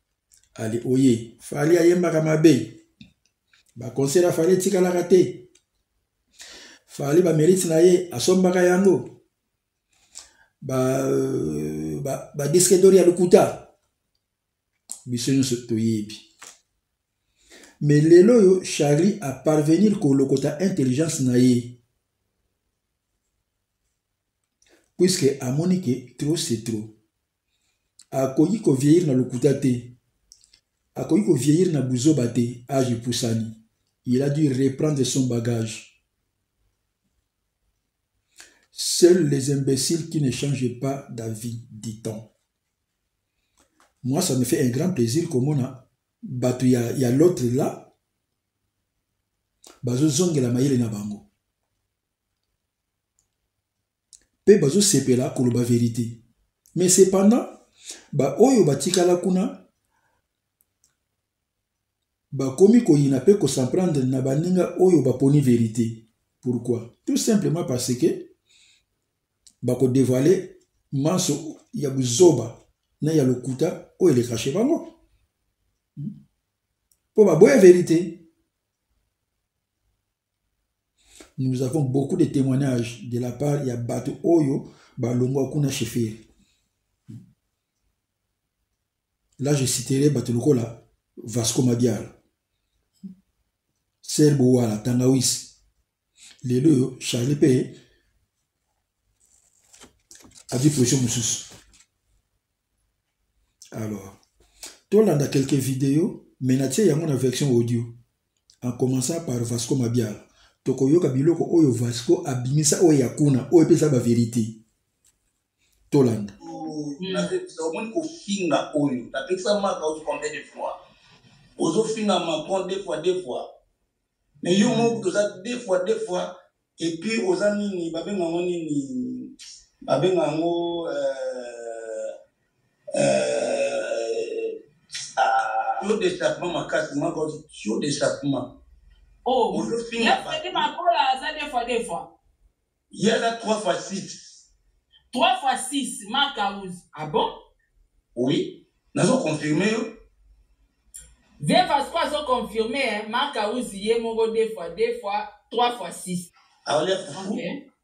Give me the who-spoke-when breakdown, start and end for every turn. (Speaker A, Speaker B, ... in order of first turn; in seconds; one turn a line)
Speaker A: 0.5-2.8
Speaker A: 3.8-5.5
Speaker A: 6.9-9.1
Speaker A: 10.6-13.7
Speaker A: 15.1-16.2
Speaker A: 17.8-21.8
Speaker A: 25.0-26.9
Speaker A: 28.1-30.0
Speaker A: 30.9-35.9
Speaker A: 38.7-42.3
Speaker A: 44.0-47.9
Speaker A: 49.8-51.2
Speaker A: 54.4-56.2
Speaker A: 56.8-57.6
Speaker A: 58.1-59.6
Speaker A: 62.3-68.3
Speaker A: 69.6-75.0
Speaker A: 77.1-78.2
Speaker A: 81.4-86.2
Speaker A: 89.4-92.1
Speaker A: 94.0-95.5
Speaker A: 96.4-97.8
Speaker A: 100.5-101.5
Speaker A: 103.7-104.2
Speaker A: 104.9-107.9
Speaker A: 108.6-114.6
Speaker A: 115.9-116.3
Speaker B: 116.4-120.8
Speaker C: 116.5-117.3
Speaker B: 121.6-123.5
Speaker B: 124.4-129.3
Speaker C: 124.5-124.9
Speaker B: 129.9-132.1
Speaker B: 132.9-134.6
Speaker B: 135.1-138.5
Speaker C: 139.2-142.1
Speaker B: 139.5-140.7
Speaker B: 142.9-144.4
Speaker C: 145.1-147.3
Speaker B: 148.1-149.9
Speaker C: 151.4-156.2
Speaker B: 156.7-157.4
Speaker C: 157.1-157.6